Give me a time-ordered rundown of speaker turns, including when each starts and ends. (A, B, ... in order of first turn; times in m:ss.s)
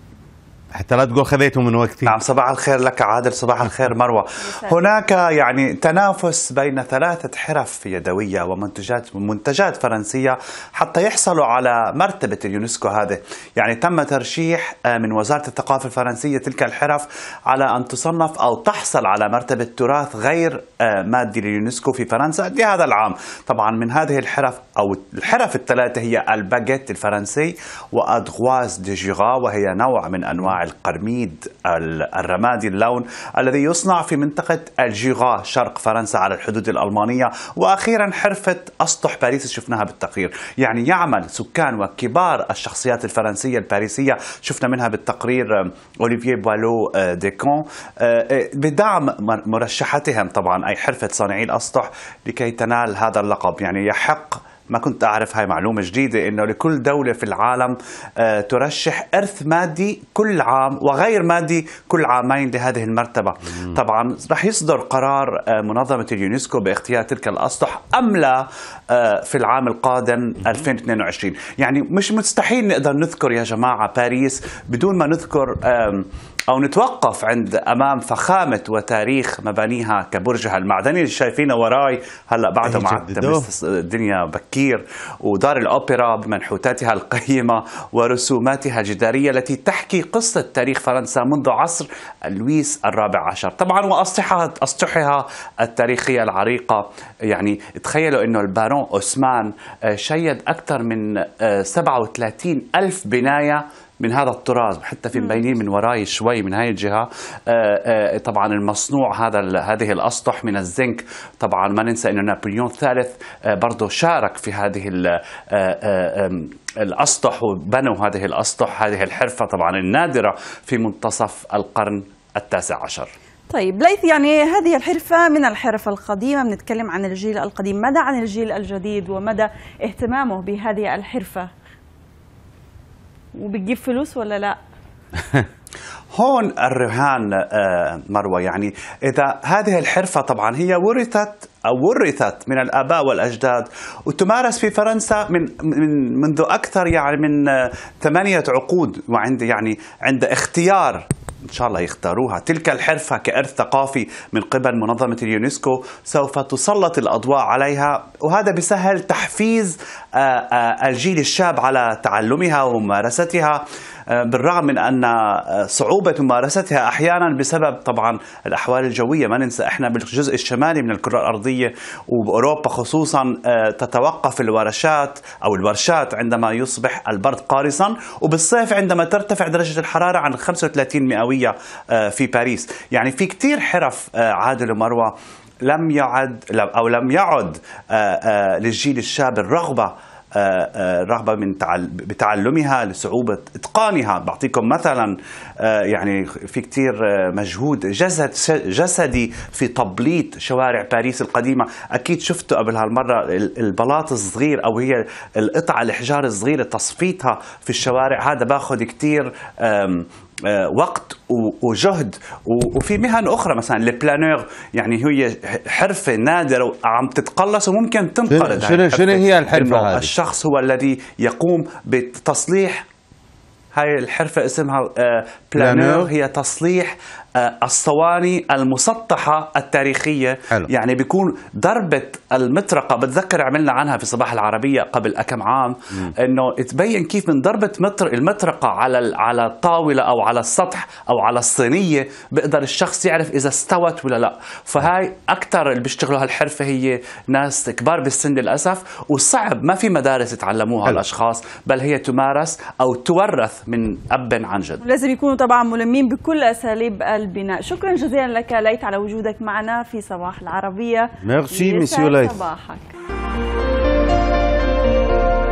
0:00.7-0:02.2 A
0:02.0-2:03.1 B
0:04.4-0:04.8 C
1:22.6-1:23.4 A
1:45.2-1:45.5 C
2:03.5-2:11.5 C
2:13.4-2:14.6 C
2:16.2-2:43.6 B
2:44.1-3:05.1 B
3:05.7-3:42.8 B
3:38.3-3:40.1 A
3:43.8-4:14.8 B
3:45.6-3:46.1 A
4:14.8-4:22.9 C
4:21.2-4:22.4 A